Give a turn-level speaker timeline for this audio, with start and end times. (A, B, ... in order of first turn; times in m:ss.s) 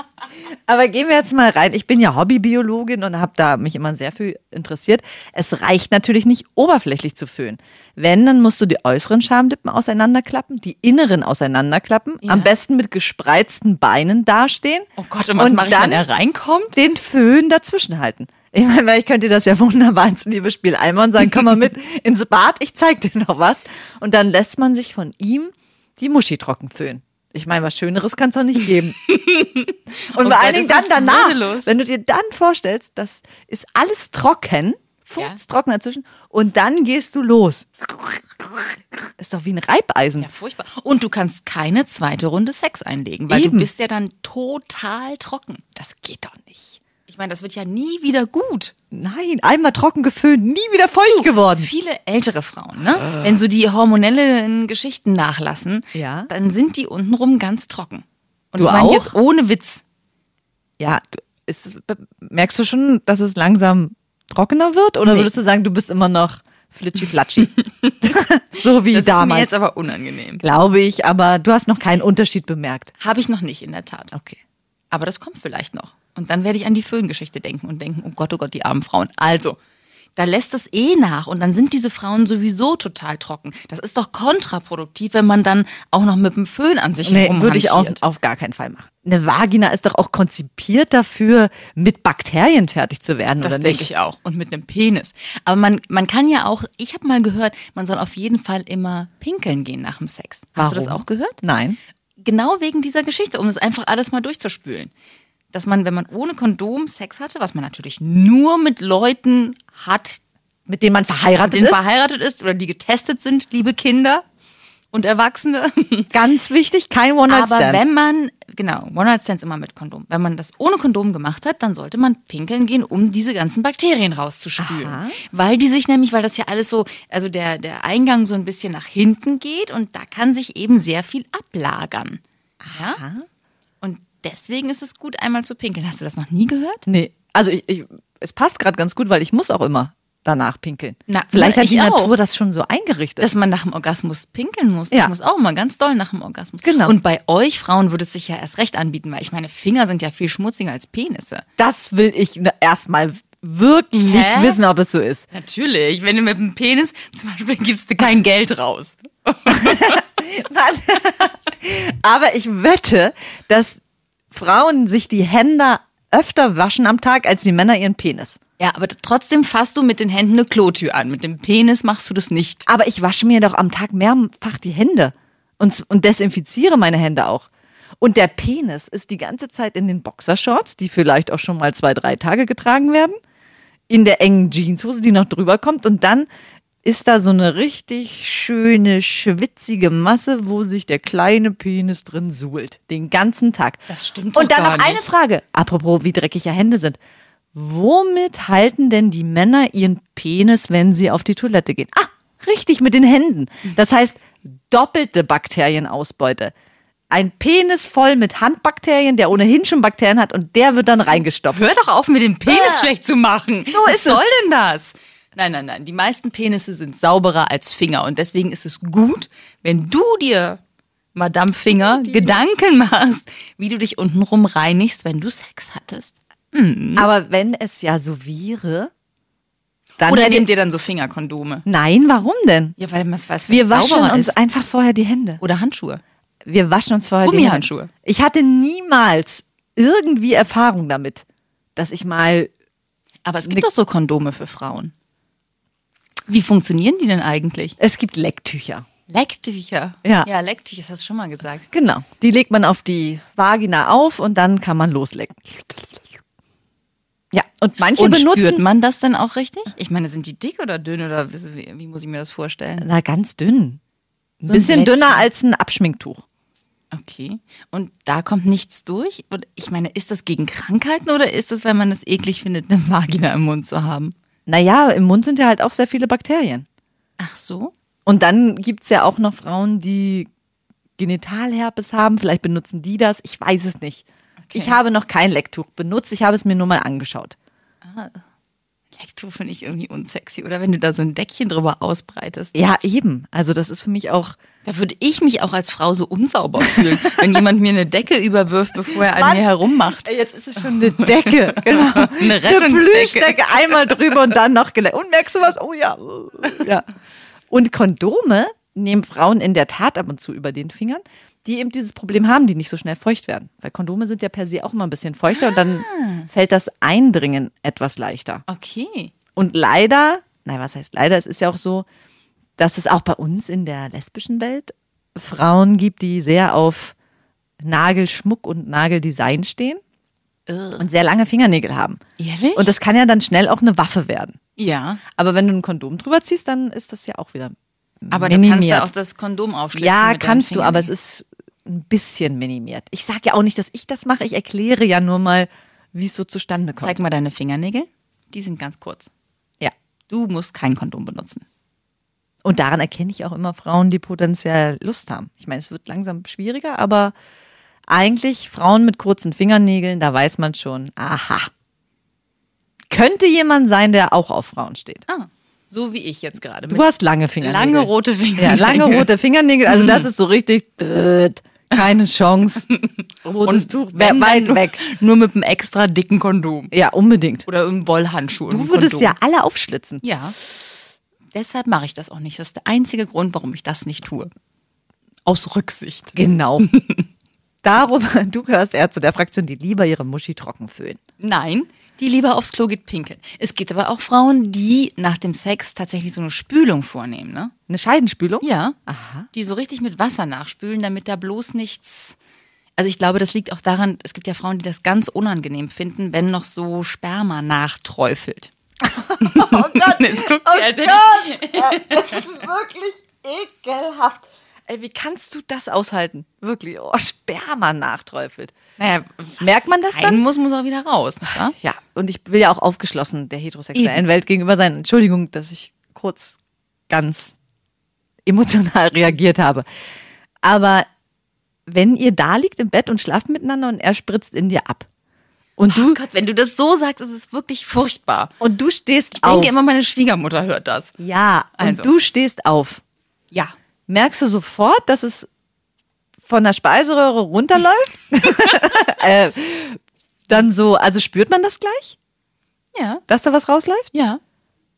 0:00.7-0:16.1 A
0:12.2-0:12.5 B
0:15.0-0:16.8 B
0:16.7-0:29.0 A
0:29.1-0:31.7 B
0:30.2-0:38.7 A
0:39.2-0:40.3 A
0:40.2-0:45.6 B
0:43.3-0:43.7 A
0:45.8-0:46.8 A
0:47.1-0:48.7 B
0:48.9-0:51.7 A
0:51.0-0:59.8 B
0:55.9-0:56.3 A
0:58.6-0:59.1 A
1:00.8-1:09.5 A
1:05.0-1:05.3 B
1:07.6-1:08.1 B
1:08.9-1:10.4 B
1:10.4-1:12.9 A
1:13.0-1:14.1 B
1:14.9-1:19.6 B
1:20.2-1:28.0 B
1:27.0-1:33.9 A
1:33.4-1:41.4 B
1:40.6-1:41.8 A
1:42.2-1:44.9 B
1:45.5-1:50.2 B
1:50.7-1:51.8 A
1:51.4-1:54.2 B
1:54.9-1:56.1 B
1:56.1-1:57.8 A
1:57.3-2:13.0 B
2:04.6-2:05.2 A
2:12.6-2:13.2 A
2:13.8-2:16.8 B
2:16.9-2:23.3 A
2:21.1-2:22.1 B
2:23.2-2:31.4 B
2:26.6-2:27.0 A
2:31.6-2:35.2 A
2:34.0-2:34.6 B
2:35.3-2:40.0 B
2:39.5-2:43.8 A
2:44.3-2:48.4 A
2:48.6-2:52.7 B
2:52.7-2:57.5 A
2:58.0-3:03.2 A
3:03.9-3:06.3 A
3:06.8-3:13.8 A
3:13.9-3:15.0 B
3:14.3-3:17.0 A
3:17.5-3:26.5 A
3:27.1-3:31.6 A
3:31.5-3:40.6 B
3:32.5-3:32.9 A
3:33.7-3:34.2 A
3:41.1-3:47.1 B
3:41.8-3:42.4 A
3:47.0-3:48.9 A
3:50.0-3:50.5 A
3:50.0-3:51.6 B
3:51.6-3:52.8 A
3:52.8-3:54.4 B
3:53.5-3:55.4 A
3:55.4-3:56.0 B
3:56.4-4:01.2 A
3:57.2-3:57.9 B
4:01.8-4:02.5 A
4:03.2-4:04.9 B
4:06.3-4:07.8 B
4:07.8-4:08.8 A
4:09.1-4:11.7 B
4:10.0-4:10.3 A
4:11.7-4:16.0 A
4:17.3-4:18.6 A
4:17.9-4:22.9 B
4:22.8-4:23.8 A
4:24.4-4:26.2 A
4:24.4-4:25.3 B
4:26.9-4:34.1 B
4:34.4-4:36.6 A
4:37.2-4:37.7 B
4:38.0-4:40.3 A
4:41.0-4:47.4 A
4:44.4-4:44.8 B
4:47.8-4:48.2 B
4:48.9-4:52.5 B
4:52.5-4:54.4 A
4:54.6-5:04.0 B
4:59.1-4:59.5 A
5:00.0-5:06.8 A
5:07.5-5:18.4 A
5:15.3-5:16.3 B
5:18.5-5:19.1 B
5:19.4-5:21.8 A
5:22.6-5:26.9 A
5:27.6-5:29.8 A
5:30.5-5:30.8 B
5:30.8-5:32.0 A
5:32.2-5:32.7 B
5:32.5-5:34.4 A
5:34.6-5:35.0 B
5:35.1-5:38.9 A
5:38.1-5:40.9 B
5:39.7-5:47.0 A
5:46.8-5:49.1 B
5:50.1-5:51.4 B
5:52.4-5:57.1 A
5:57.9-6:01.5 A
6:02.9-6:05.0 A
6:05.1-6:06.9 B
6:06.7-6:12.7 A
6:07.4-6:09.1 B
6:09.7-6:10.1 B
6:12.7-6:16.7 B
6:13.2-6:14.8 A
6:16.7-6:17.5 A
6:17.4-6:19.2 B
6:18.5-6:20.0 A
6:20.0-6:20.4 B
6:21.3-6:24.3 B
6:25.2-6:27.0 B
6:26.1-6:26.7 A
6:27.6-6:31.0 A
6:31.2-6:37.5 B
6:37.7-6:39.3 A
6:38.4-6:38.8 B
6:39.3-6:42.2 B
6:42.8-6:48.5 B
6:48.8-6:58.5 A
6:49.2-6:52.2 B
6:58.8-7:01.5 B
6:59.4-7:00.2 A
7:01.6-7:06.4 A
7:03.7-7:04.0 B
7:06.9-7:07.3 A
7:08.2-7:09.6 A
7:10.4-7:10.8 A
7:11.7-7:14.9 A
7:15.6-7:16.0 A
7:15.7-7:18.3 B
7:18.4-7:19.5 A
7:19.2-7:20.9 B
7:21.0-7:22.8 A
7:21.6-7:21.9 B
7:23.9-7:25.3 A
7:26.2-7:32.0 A
7:32.7-7:33.0 B
7:33.1-7:33.9 A
7:33.9-7:34.2 B